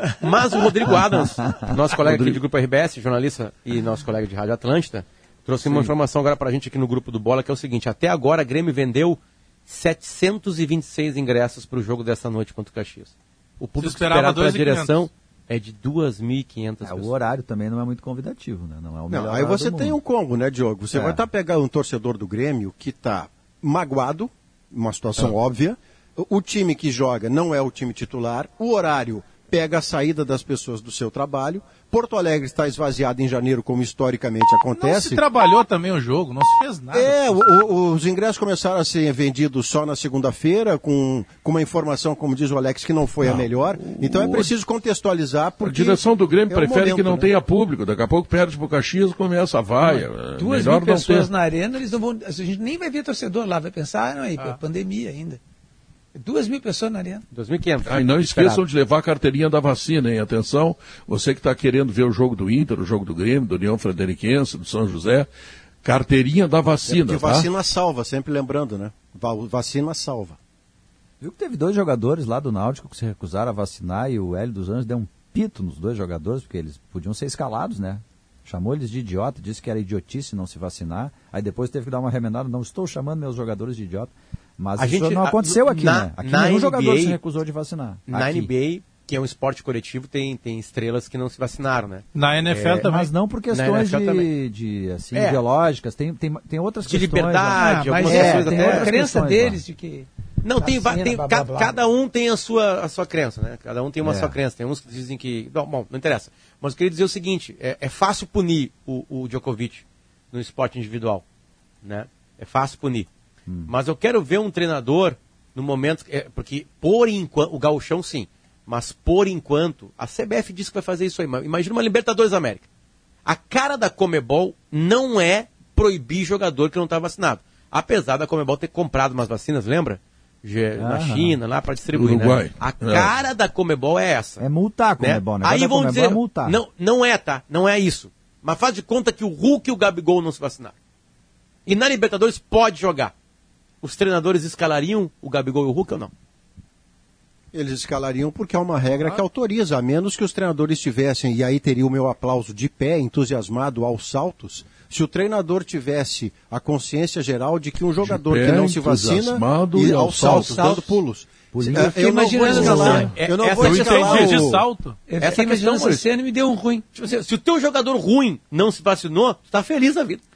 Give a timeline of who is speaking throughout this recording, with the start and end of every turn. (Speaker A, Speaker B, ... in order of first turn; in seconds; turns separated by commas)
Speaker A: 0.2-17.1, Speaker B: 2.0-2.4, Speaker C: 13.8-15.0, Speaker D: 16.8-20.0, Speaker E: 19.1-35.2, Speaker D: 20.9-21.2, Speaker C: 34.8-37.4, Speaker E: 36.9-47.3, Speaker B: 43.2-44.5, Speaker B: 45.6-51.3, Speaker F: 49.9-55.4, Speaker F: 56.1-57.2, Speaker A: 57.3-58.6, Speaker B: 57.8-65.3, Speaker B: 65.8-67.5, Speaker E: 66.8-70.4, Speaker D: 71.2-88.5, Speaker A: 84.8-87.2, Speaker A: 88.1-92.8, Speaker C: 92.1-93.1, Speaker D: 92.8-99.6, Speaker A: 93.5-94.3, Speaker A: 95.1-95.4, Speaker A: 96.8-98.9, Speaker F: 97.5-100.1, Speaker A: 100.4-111.2, Speaker F: 100.6-101.8, Speaker D: 104.0-104.3, Speaker A: 111.8-113.1, Speaker D: 113.5-113.7, Speaker A: 113.7-122.6, Speaker A: 123.2-134.4, Speaker D: 130.8-131.3, Speaker B: 131.9-133.1, Speaker D: 134.4-136.6, Speaker A: 135.0-140.7, Speaker A: 141.7-143.1, Speaker A: 143.8-146.1, Speaker E: 147.5-164.6, Speaker B: 158.0-160.9, Speaker D: 161.5-162.4, Speaker F: 161.6-163.1, Speaker A: 162.6-164.5, Speaker C: 163.6-165.0, Speaker F: 165.1-166.8, Speaker A: 165.2-166.0, Speaker A: 166.9-170.2